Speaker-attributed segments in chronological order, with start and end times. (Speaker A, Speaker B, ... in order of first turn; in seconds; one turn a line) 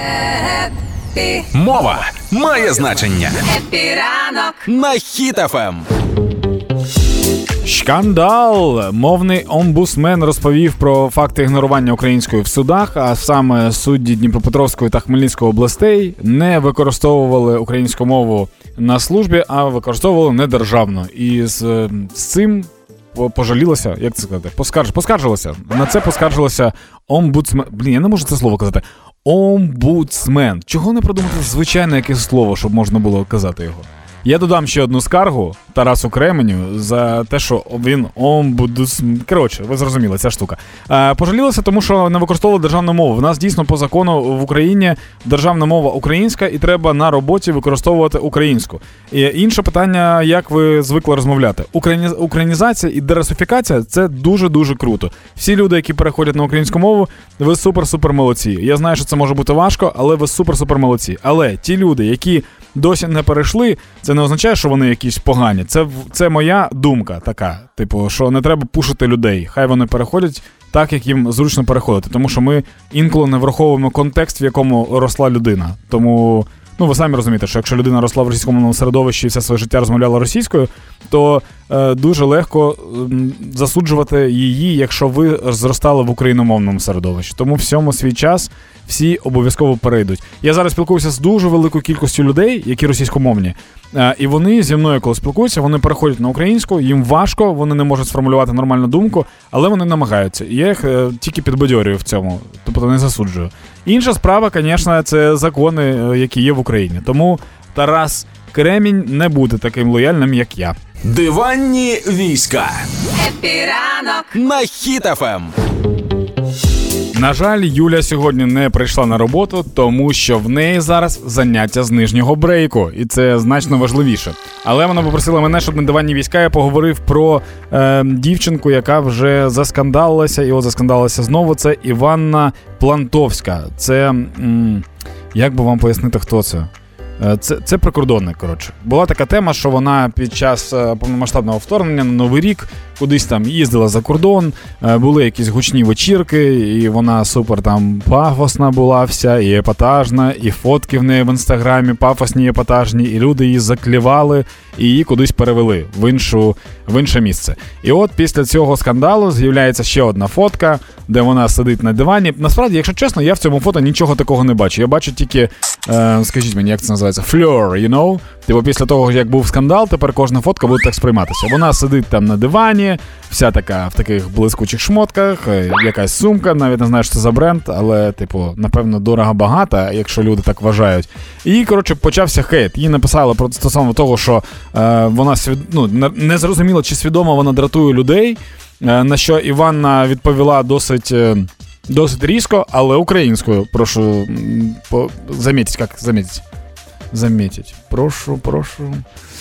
Speaker A: 0.2-1.4
Speaker B: 1.5-3.4
Speaker A: 3.4-4.6
Speaker B: 4.6-5.9
Speaker C: 7.6-110.8
Speaker B: 111.0-112.9
Speaker A: 113.1-114.3
Speaker B: 114.3-115.5
Speaker C: 117.1-136.7
Speaker C: 137.2-196.4
Speaker C: 197.1-199.0